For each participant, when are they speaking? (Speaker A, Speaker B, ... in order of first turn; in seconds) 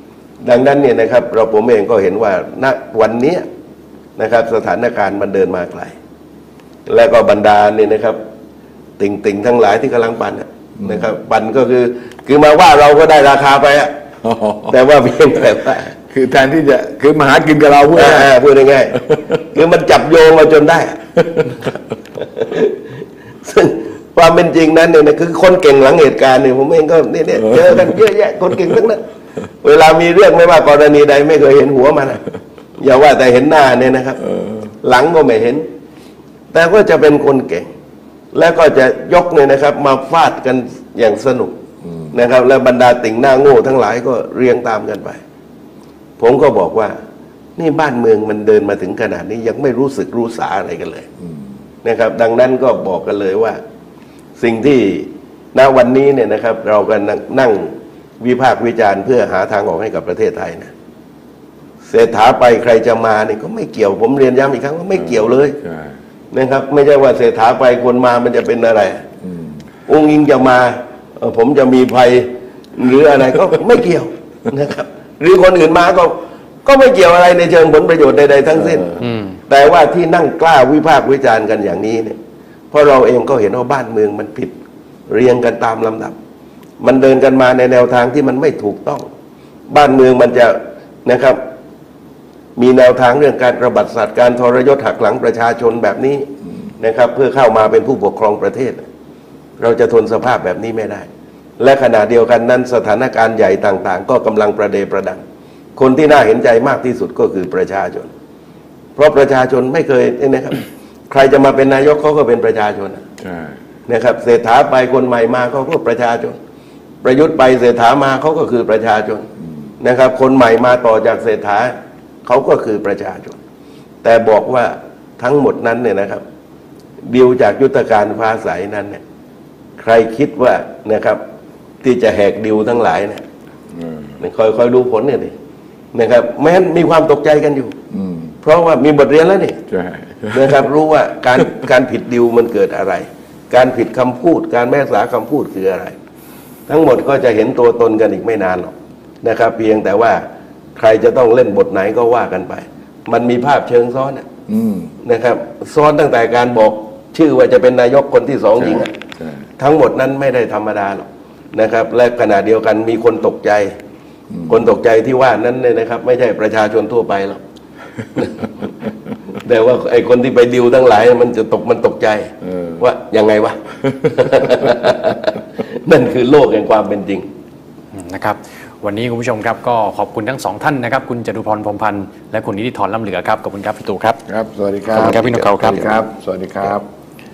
Speaker A: 0.4-3.4, 4.2-5.9, 6.9-8.2, 9.0-13.9, 14.7-15.9, 17.9-22.8, 23.4-29.0, 29.6-32.2, 32.8-35.6, 36.5-37.7, 38.3-41.5, 42.1-45.2, 46.2-46.9, 47.6-51.1, 51.8-53.6, 54.4-60.7, 61.9-65.6, 66.3-69.0, 69.9-82.2, 82.7-84.5, 85.1-86.1, 86.8-89.1, 89.7-91.4, 92.5-96.3, 96.8-98.8, 99.6-101.1, 101.6-105.2, 105.8-108.1, 109.0-113.0, 113.9-116.4, 117.0-119.3, 119.8-121.7, 122.2-123.4, 124.0-126.2, 127.1-129.0, 129.8-131.2, 131.8-133.2, 134.2-135.3, 135.9-137.7, 138.4-139.6, 140.3-145.9, 146.7-150.2, 150.8-154.3, 155.0-158.9, 159.6-163.7, 164.5-167.4, 168.2-168.7, 169.3-177.2
Speaker B: 10.8-11.1, 14.2-14.7, 16.1-18.3, 41.8-42.1, 65.0-66.0, 69.2-69.6, 78.7-79.1, 113.2-113.5, 133.7-134.2, 137.9-138.3, 139.7-140.7, 154.5-154.9, 158.6-159.4, 164.3-164.6, 172.5-172.8, 174.0-174.5, 184.2-186.8
Speaker C: 177.9-184.2, 184.9-186.0